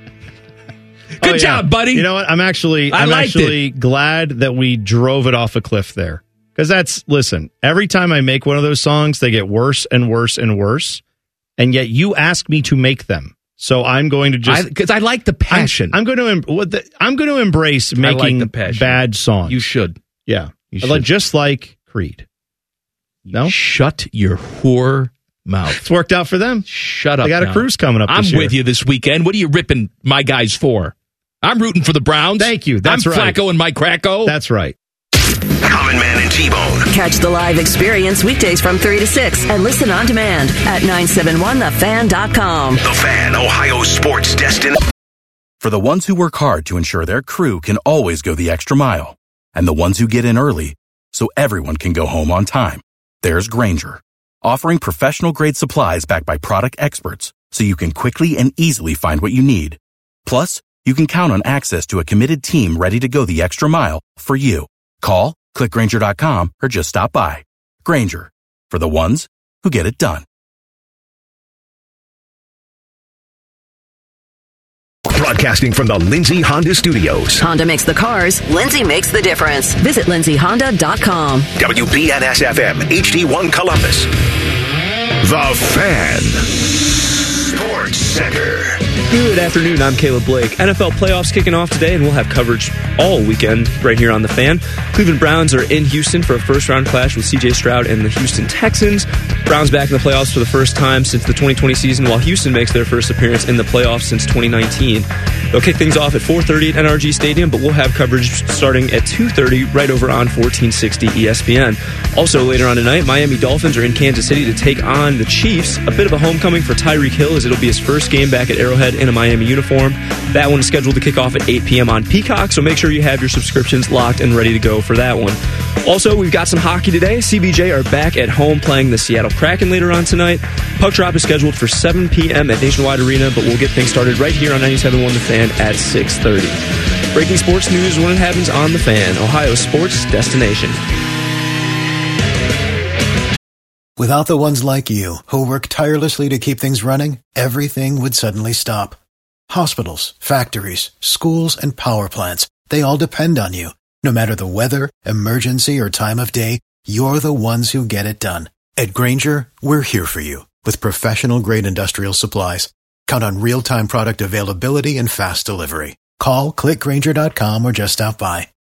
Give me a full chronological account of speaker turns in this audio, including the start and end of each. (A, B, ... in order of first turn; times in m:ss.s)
0:01.2-0:02.1 A
0:01.2-0:11.0 B
0:02.9-0:03.6 A
0:11.6-0:14.6 B
0:14.4-0:16.0 A
0:15.5-0:19.6 B
0:18.0-0:20.0 A
0:20.3-0:22.2 B
0:20.7-0:21.1 A
0:23.2-0:25.8 A
0:25.7-0:26.7 B
0:26.7-0:34.4 A
0:27.2-0:28.6 B
0:32.4-0:33.4 B
0:34.2-0:34.7 B
0:35.6-0:36.9 C
0:36.9-0:42.8 D
0:42.8-0:44.8 C
0:45.6-1:10.2 E
1:15.1-1:17.4 C
1:17.4-1:21.5 D
1:21.6-1:24.1 C
1:25.2-1:28.8 C
1:29.0-2:16.6 F
2:17.1-2:20.8 F
2:24.0-2:29.0 G
2:29.5-2:48.5 G